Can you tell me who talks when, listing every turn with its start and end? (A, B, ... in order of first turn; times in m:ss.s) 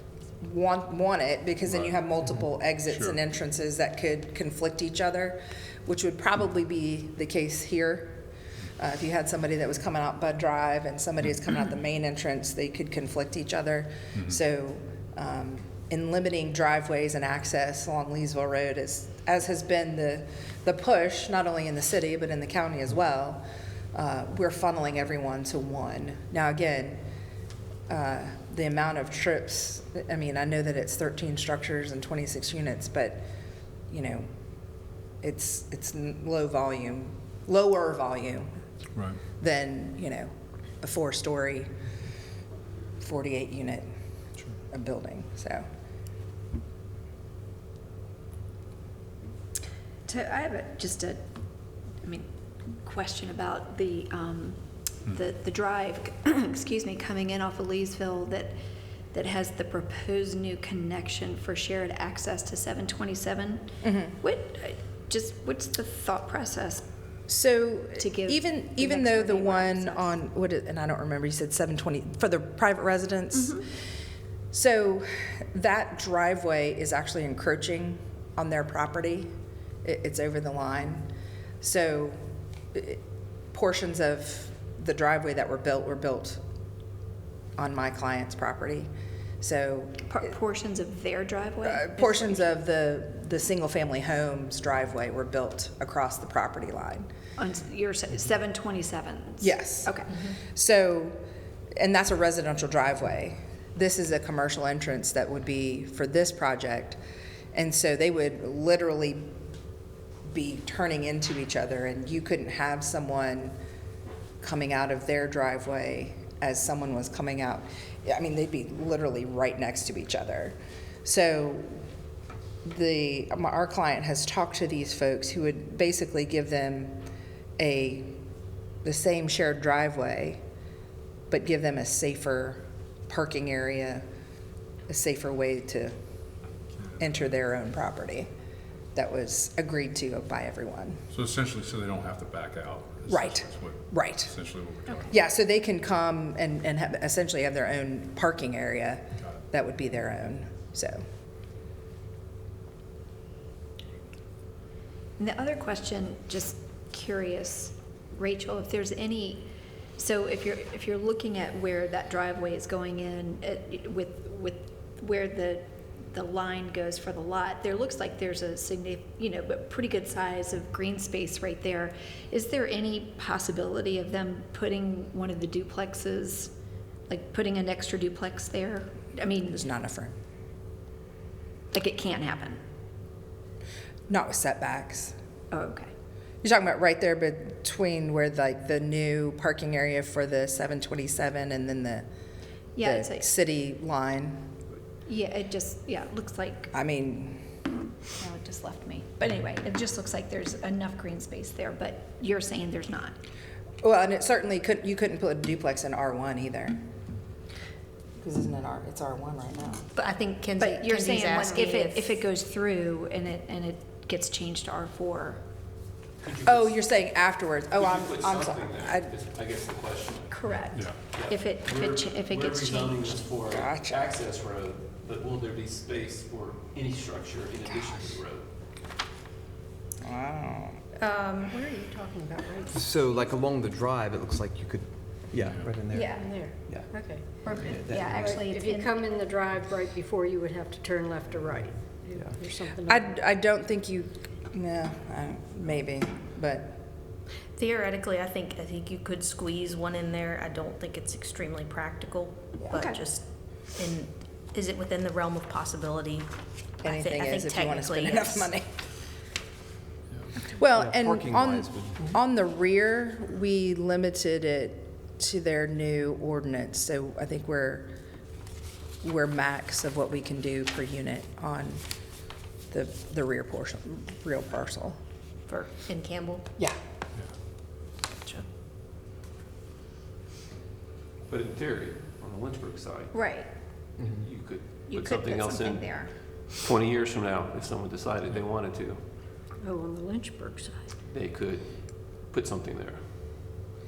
0:00.4-0:08.2 A
0:02.9-0:03.2 B
0:08.8-0:27.0 A
0:27.9-0:33.2 A
0:33.9-0:34.3 A
0:35.2-0:38.5 A
0:39.4-0:41.7 A
0:43.0-0:43.9 A
0:44.7-0:45.7 A
0:50.1-0:51.3 C
0:52.0-0:52.3 C
0:52.8-0:58.5 C
0:59.1-1:06.8 C
1:03.8-1:04.2 A
1:07.3-1:13.6 A
1:08.0-1:10.2 C
1:13.4-1:13.6 C
1:14.5-1:19.3 A
1:19.8-1:21.1 A
1:21.6-1:22.2 A
1:22.7-1:23.0 A
1:23.5-1:26.4 A
1:27.6-1:28.9 A
1:29.4-1:30.1 A
1:30.1-1:32.5 C
1:31.6-1:37.1 A
1:37.4-1:40.1 C
1:39.4-1:41.2 A
1:41.8-1:47.0 A
1:47.5-1:49.3 A
1:50.3-1:53.6 A
1:54.4-2:01.9 A
2:02.6-2:07.0 A
2:07.6-2:08.2 A
2:08.8-2:10.4 A
2:11.3-2:14.0 A
2:14.9-2:16.0 A
2:17.0-2:18.3 A
2:19.0-2:21.0 A
2:21.1-2:25.1 B
2:23.1-2:24.3 A
2:25.1-2:31.0 A
2:35.2-2:56.5 C
2:57.1-2:59.6 C
2:59.5-3:00.2 A
3:01.7-3:02.6 C
3:04.1-3:05.1 A
3:05.5-3:05.9 C
3:06.4-3:12.1 A
3:12.8-3:13.3 C
3:12.8-3:14.5 A
3:15.1-3:16.7 C
3:16.7-3:17.4 A
3:18.2-3:23.2 C
3:23.8-3:26.8 A
3:28.2-3:29.8 A
3:30.0-3:32.2 D
3:30.6-3:35.4 C
3:36.2-3:36.8 E
3:36.5-3:39.1 A
3:37.7-3:40.4 E
3:40.3-3:43.1 C
3:40.6-3:41.0 B
3:41.1-3:48.5 E
3:43.5-3:44.0 A
3:50.0-3:50.8 A
3:51.0-3:51.6 D
3:51.5-3:53.2 F
3:52.7-3:56.9 G
3:55.4-3:55.8 B
3:55.9-3:56.4 C
3:56.1-3:57.3 F
3:57.4-3:59.0 C
3:57.5-3:58.0 D
3:57.7-3:58.3 G
3:58.0-4:03.2 F
4:02.8-4:06.8 A
4:07.6-4:13.2 D
4:12.7-4:13.0 C
4:13.8-4:16.3 D
4:16.8-4:18.5 D
4:16.8-4:18.7 A
4:20.5-4:27.9 A
4:20.7-4:22.1 G
4:29.0-4:31.8 A
4:32.7-4:35.0 A
4:35.5-4:36.4 D
4:41.3-4:43.2 E
4:43.1-4:43.5 C
4:44.0-4:49.0 E
4:44.0-4:44.3 G
4:44.9-4:46.2 C
4:49.6-4:50.9 F
4:51.1-4:53.2 E